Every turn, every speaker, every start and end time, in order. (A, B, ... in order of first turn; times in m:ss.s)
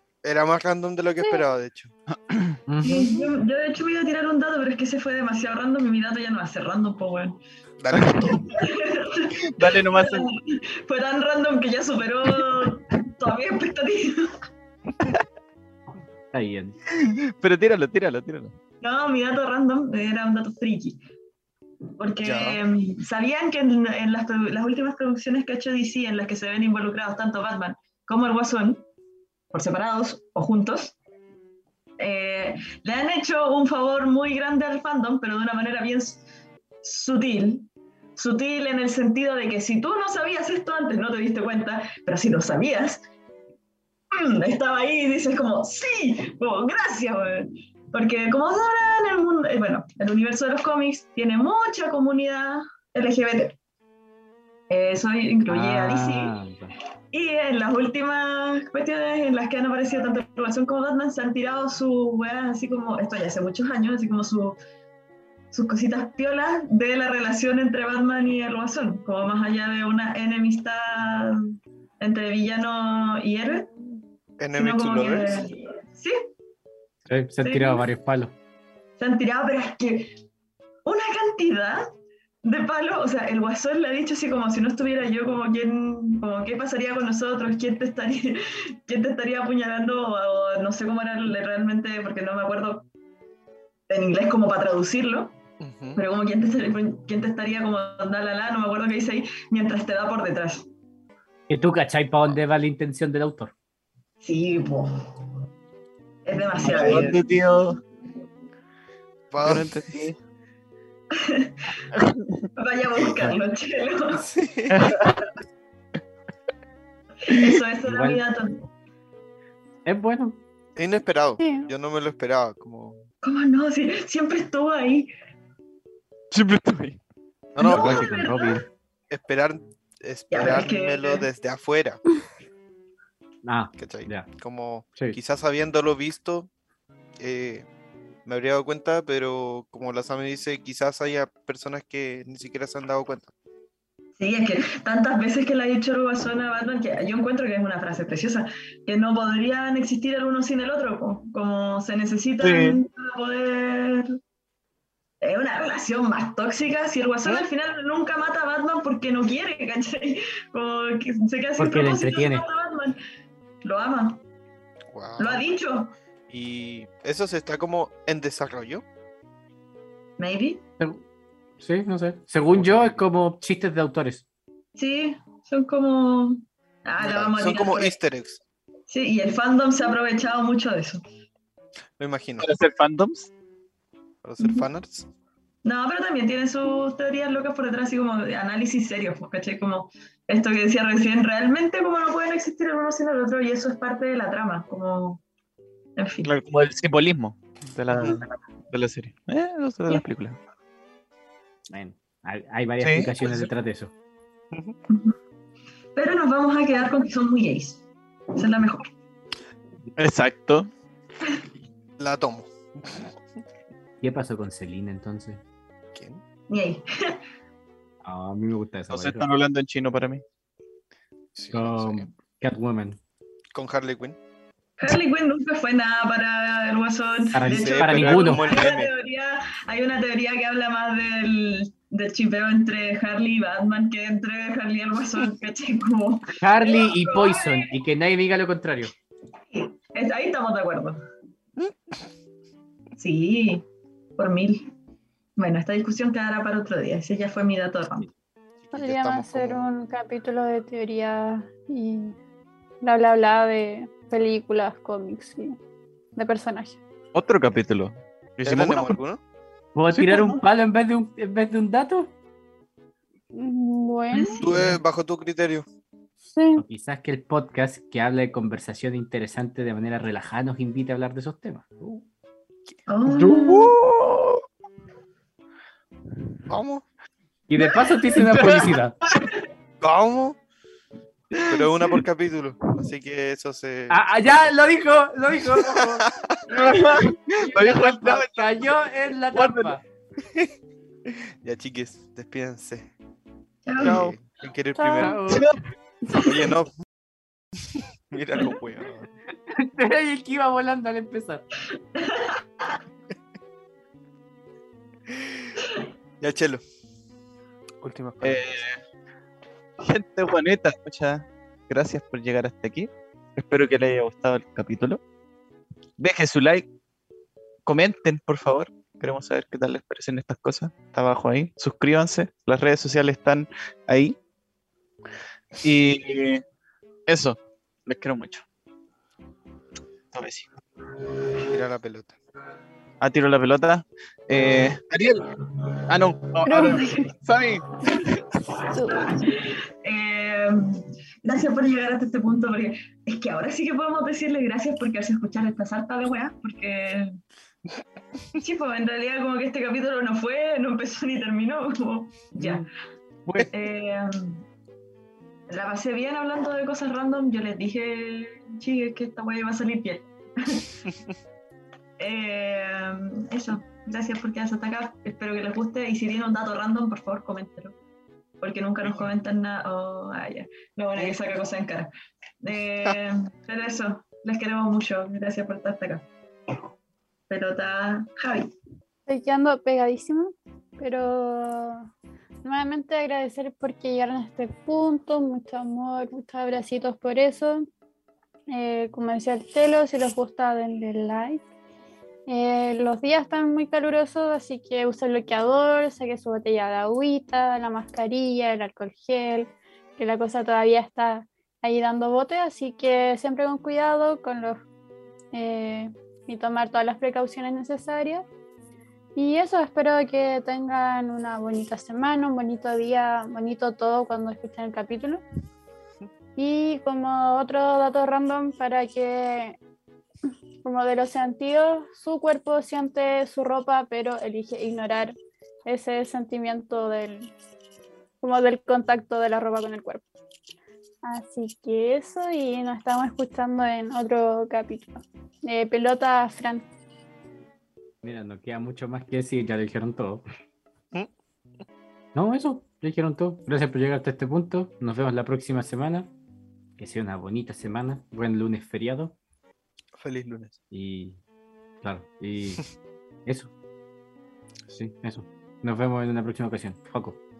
0:00.2-0:01.9 A
0:02.1-0:02.6 B
0:02.7-0:03.2 C
0:02.8-0:07.4 D
0:07.8-0:08.4 A
0:07.9-0:08.5 B
0:08.5-0:14.4 D
0:09.4-0:10.3 B
0:16.3-0:16.8 C
0:16.9-0:18.5 B
0:18.8-0:21.0 D
0:22.0-0:28.8 D
0:22.2-0:22.6 A
0:29.5-0:31.0 D
0:32.0-0:36.2 D
0:36.8-0:43.0 D
0:44.1-0:53.6 D
0:54.7-0:56.4 D
0:55.5-0:56.7 C
0:57.1-1:04.6 D
1:05.5-1:11.4 D
1:12.0-1:13.7 D
1:14.4-1:15.5 A
1:14.5-1:16.2 D
1:17.1-1:18.3 C
1:17.4-1:17.9 D
1:19.0-1:20.1 D
1:20.8-1:21.8 D
1:22.4-1:32.9 D
1:33.9-1:35.4 D
1:35.6-1:36.0 A
1:35.9-1:40.7 D
1:41.5-1:43.5 C
1:44.2-1:45.1 D
1:46.2-1:47.2 D
1:46.6-1:47.8 B
1:49.3-1:49.7 A
1:49.4-1:50.2 B
1:51.1-1:51.5 D
1:51.9-1:52.5 B
1:52.6-1:54.2 D
1:53.0-1:53.4 C
1:54.1-1:55.0 A
1:54.7-1:55.2 B
1:57.2-1:58.6 D
1:57.8-1:58.2 C
1:59.8-2:00.4 C
2:00.8-2:03.0 A
2:01.4-2:01.6 E
2:03.2-2:05.1 D
2:06.3-2:07.0 B
2:07.5-2:08.1 A
2:07.6-2:08.6 D
2:07.6-2:08.6 C
2:09.1-2:12.0 A
2:10.3-2:11.3 D
2:13.4-2:14.3 C
2:13.8-2:16.5 A
2:17.2-2:17.7 A
2:18.2-2:23.3 A
2:24.2-2:34.1 D
2:32.4-2:32.8 B
2:35.2-2:43.0 D
2:41.6-2:42.4 C
2:43.6-2:44.2 D
2:44.9-2:45.4 A
2:45.2-2:45.9 D
2:46.3-2:48.8 A
2:50.2-2:50.6 D
2:51.6-2:54.2 C
2:52.6-2:53.0 A
2:54.7-2:58.0 D
2:57.0-2:58.4 A
2:58.9-3:01.0 D
3:02.0-3:02.5 A
3:02.4-3:03.3 B
3:04.2-3:05.1 A
3:04.4-3:04.7 D
3:05.6-3:15.2 D
3:16.0-3:16.3 D
3:16.2-3:20.4 B
3:17.9-3:18.2 A
3:21.7-3:23.9 C
3:22.8-3:23.5 B
3:24.9-3:25.1 D
3:26.0-3:27.8 D
3:28.3-3:28.9 D
3:30.0-3:30.7 B
3:32.0-3:33.2 A
3:34.0-3:35.4 C
3:35.9-3:36.2 A
3:36.5-3:37.2 D
3:38.0-3:39.3 C
3:38.9-3:40.2 B
3:41.3-3:42.1 A
3:41.5-3:43.0 C
3:43.5-3:44.2 A
3:44.8-3:57.7 D
3:47.3-3:48.4 C
3:47.5-3:48.9 A
3:56.4-3:58.9 C
3:59.5-4:01.0 D
4:03.0-4:03.6 D
4:04.2-4:04.7 D
4:05.4-4:08.1 D
4:08.6-4:09.6 A
4:08.7-4:12.2 E
4:12.8-4:15.6 E
4:16.1-4:16.8 E
4:17.1-4:19.0 B
4:18.4-4:19.2 A
4:19.7-4:22.1 C
4:19.9-4:20.4 B
4:23.3-4:24.5 E
4:24.1-4:24.8 D
4:24.4-4:25.6 A
4:26.3-4:26.6 E
4:26.6-4:32.0 C
4:32.9-4:33.8 D
4:33.1-4:34.4 B
4:36.5-4:36.8 A
4:37.5-4:39.0 C
4:38.2-4:38.7 B
4:39.8-4:40.4 A
4:41.3-4:41.6 B
4:41.4-4:44.0 A
4:43.9-4:46.1 C
4:45.8-4:46.5 A
4:46.5-4:48.7 B
4:47.4-4:49.8 C
4:49.3-4:49.8 B
4:51.1-4:52.9 A
4:53.6-4:54.0 D
4:53.8-4:54.2 B
4:53.8-4:55.2 A
4:54.8-4:55.2 E
4:55.0-4:55.4 C
4:55.3-4:55.6 B
4:56.2-4:56.7 A
4:58.1-4:59.1 A
4:59.5-5:01.4 C
5:01.9-5:02.4 D
5:05.1-5:05.5 A
5:06.2-5:06.6 A
5:07.8-5:08.6 A
5:08.2-5:08.8 B
5:09.8-5:15.0 B
5:16.0-5:16.7 B
5:17.6-5:24.2 B
5:25.6-5:26.4 B
5:27.1-5:28.4 B
5:30.1-5:30.5 B
5:31.4-5:32.2 A
5:33.0-5:35.2 B
5:35.9-5:38.4 B
5:36.4-5:37.1 D
5:36.4-5:36.9 E
5:38.6-5:39.2 E
5:38.9-5:47.2 D
5:48.4-5:52.6 D
5:52.4-5:52.6 C
5:53.5-5:54.4 D
5:55.5-6:00.7 D
6:02.0-6:07.8 D
6:08.4-6:11.9 D
6:12.4-6:16.1 D
6:17.3-6:18.5 D
6:19.1-6:21.9 E
6:22.4-6:27.6 E
6:28.5-6:31.4 E
6:32.3-6:44.6 E
6:45.3-6:48.2 E
6:49.2-6:55.2 E
6:56.4-6:59.6 E
7:00.6-7:05.1 E
7:05.6-7:07.3 E
7:08.2-7:10.0 E
7:11.0-7:16.7 E
7:18.0-7:20.2 C
7:22.1-7:26.1 C
7:26.8-7:29.2 C
7:30.0-7:30.6 A
7:30.7-7:31.2 C
7:31.8-7:32.6 C
7:33.2-7:33.5 C
7:34.7-7:37.2 C